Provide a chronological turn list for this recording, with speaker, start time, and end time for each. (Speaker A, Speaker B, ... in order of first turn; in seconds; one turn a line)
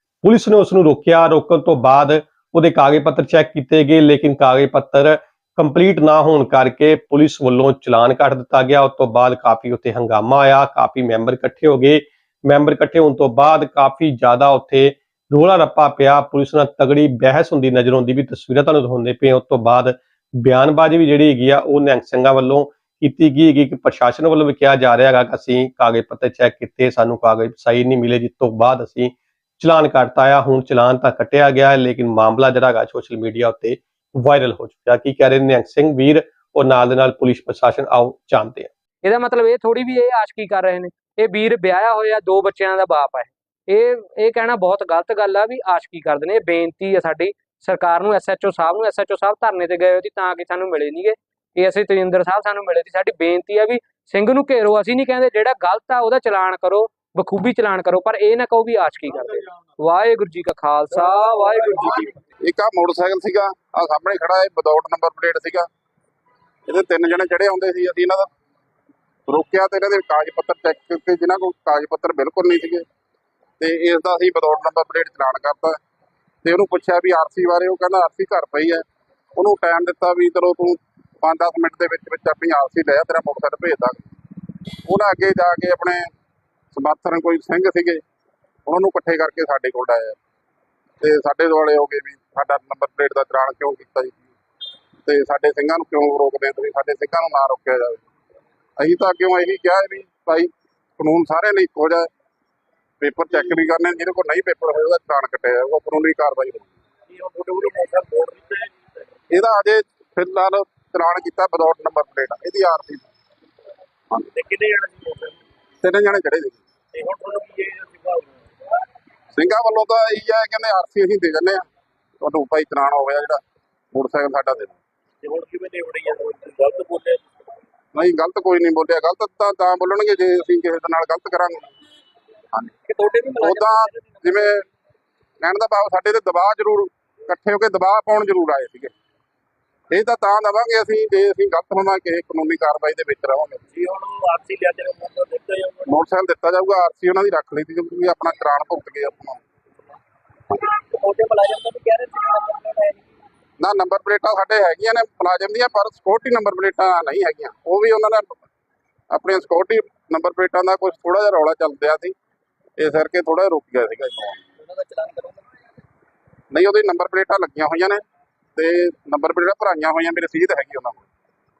Speaker A: 0.2-38.7
Speaker B: 39.0-62.1
Speaker C: 62.4-65.7
Speaker C: 66.7-68.3
Speaker C: 69.3-72.8
Speaker C: 73.6-75.8
Speaker C: 76.4-78.8
Speaker C: 79.3-84.0
Speaker C: 84.8-86.1
Speaker C: 86.7-88.0
Speaker C: 88.7-90.2
Speaker C: 91.0-94.2
Speaker C: 95.0-98.0
Speaker C: 98.8-102.1
Speaker C: 103.0-106.7
Speaker D: 107.1-109.0
Speaker C: 109.3-113.1
Speaker D: 114.2-115.4
Speaker C: 115.8-116.6
Speaker D: 116.9-118.4
Speaker C: 119.3-121.6
Speaker C: 122.2-123.4
Speaker C: 123.9-124.8
Speaker D: 125.2-127.2
Speaker C: 127.9-131.8
Speaker D: 132.8-134.4
Speaker C: 133.4-134.6
Speaker C: 135.4-138.9
Speaker C: 139.9-143.6
Speaker D: 143.7-146.0
Speaker C: 145.9-149.4
Speaker D: 150.5-153.1
Speaker C: 153.6-158.4
Speaker C: 159.1-162.1
Speaker C: 162.8-164.4
Speaker D: 164.6-165.4
Speaker C: 166.5-168.0
Speaker C: 168.5-171.0